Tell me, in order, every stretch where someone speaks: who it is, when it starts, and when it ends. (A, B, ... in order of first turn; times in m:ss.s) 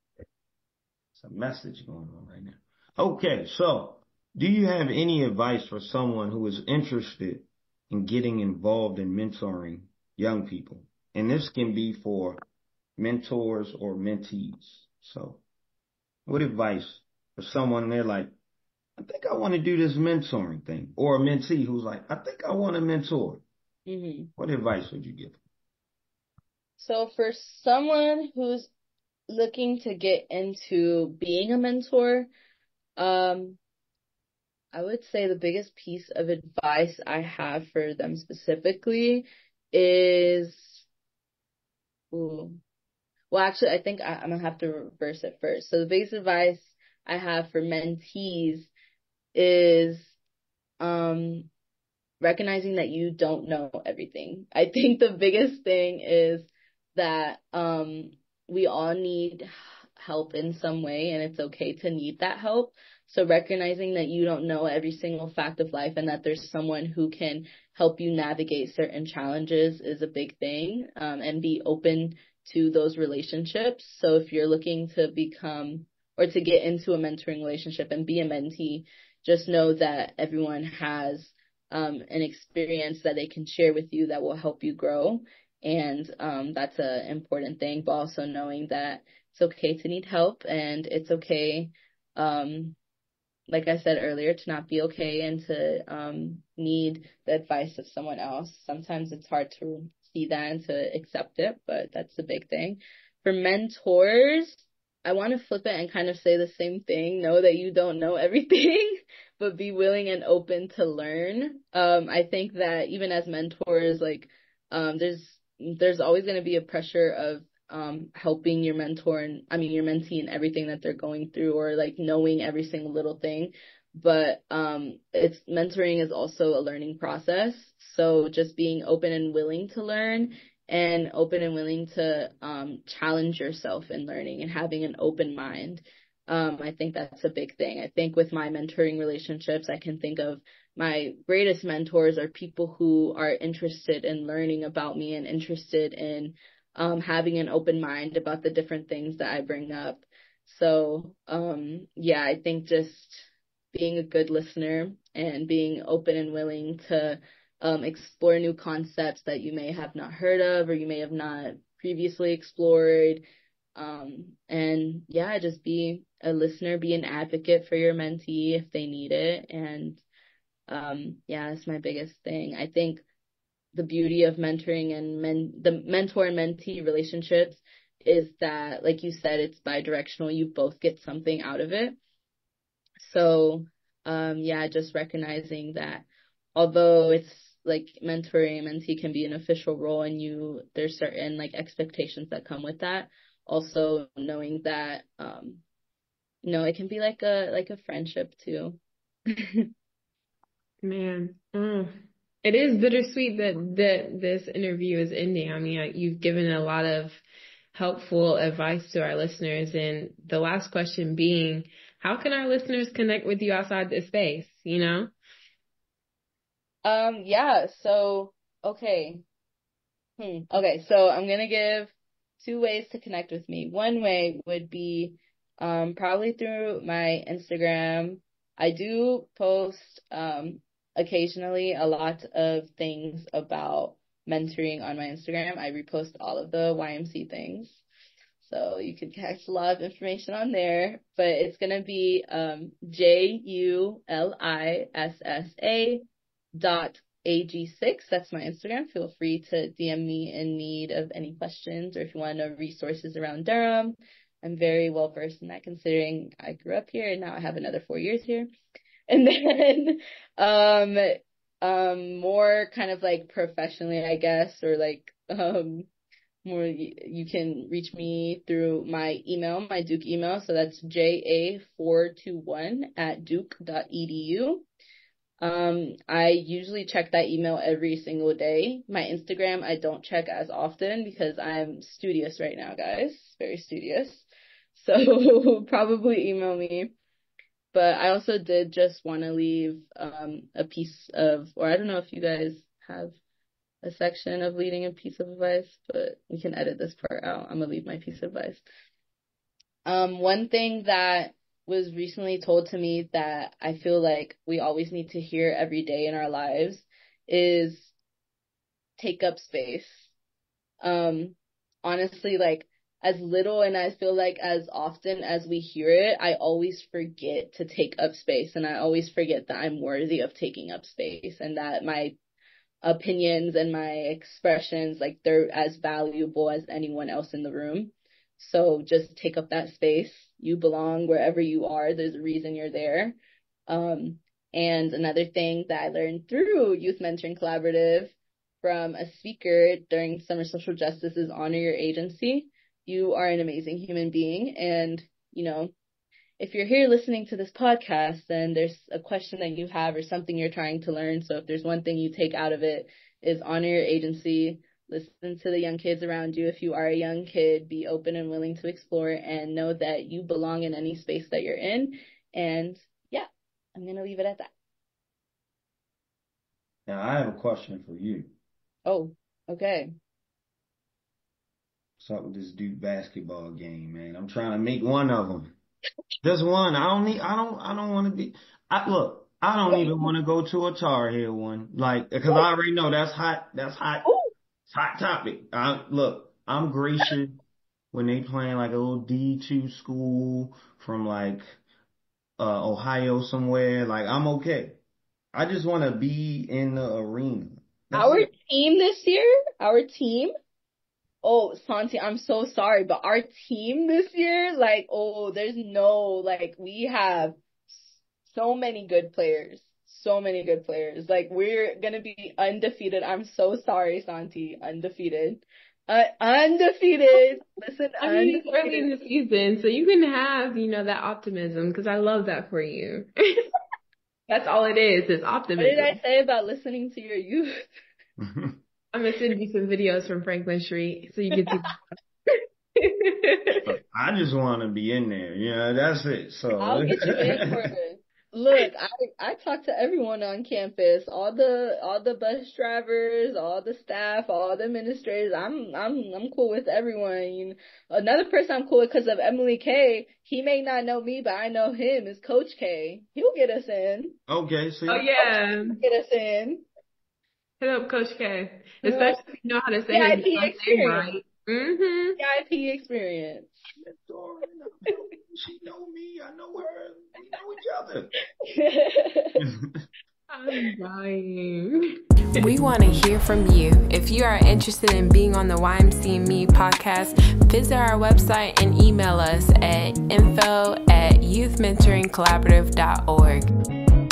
0:01.2-0:12.4 A
0:13.0-0:15.4 A
0:16.3-0:18.3 A
0:19.0-0:23.4 A
0:23.9-0:24.3 B
0:24.4-0:25.4 A
0:26.8-0:28.7 B
0:29.3-0:32.3 B
0:33.0-0:33.6 B
0:34.7-0:40.9 B
0:42.1-0:42.6 B
0:43.3-0:48.7 B
0:49.4-0:50.2 B
0:50.8-0:51.5 B
0:52.2-1:32.8 B
1:33.5-2:43.2 B
2:43.8-2:50.0 B
2:50.7-2:53.0 B
2:53.7-3:02.0 B
3:03.0-3:15.6 B
3:16.4-3:18.8 B
3:19.4-3:19.7 B
3:20.8-3:27.2 C
3:27.7-3:35.1 C
3:36.8-3:39.2 B
3:40.2-3:57.8 B
3:58.4-4:06.0 B
4:06.6-4:18.5 B
4:19.1-4:25.9 B
4:26.4-4:34.7 B
4:35.4-4:46.9 B
4:47.7-4:53.2 B
4:53.8-4:58.6 B
4:59.9-5:07.9 B
5:09.0-5:10.1 B
5:10.8-5:22.2 B
5:22.8-5:33.2 B
5:33.7-5:45.7 B
5:46.4-6:04.5 B
6:06.9-6:08.3 A
6:08.9-6:09.9 B
6:12.0-6:15.6 A
6:16.2-6:24.1 A
6:19.7-6:20.1 B
6:24.7-6:27.4 A
6:27.9-6:31.4 A
6:32.4-6:34.8 A
6:35.3-6:38.3 A
6:37.9-6:40.3 B
6:41.2-6:58.9 B
6:58.0-7:03.5 C
7:04.3-7:06.0 C
7:05.6-7:07.5 B
7:08.2-7:08.6 A
7:08.9-7:11.8 C
7:12.8-7:13.6 C
7:13.7-7:17.7 A
7:16.6-7:34.2 B
7:34.3-7:35.1 A
7:34.9-7:35.8 C
7:35.2-7:36.7 B
7:37.6-7:42.2 C
7:38.8-7:39.2 B
7:39.9-7:41.1 B
7:42.2-7:43.5 B
7:43.8-7:48.1 A
7:48.5-7:49.4 B
7:49.4-7:49.9 A
7:50.3-7:51.8 C
7:52.4-8:03.5 C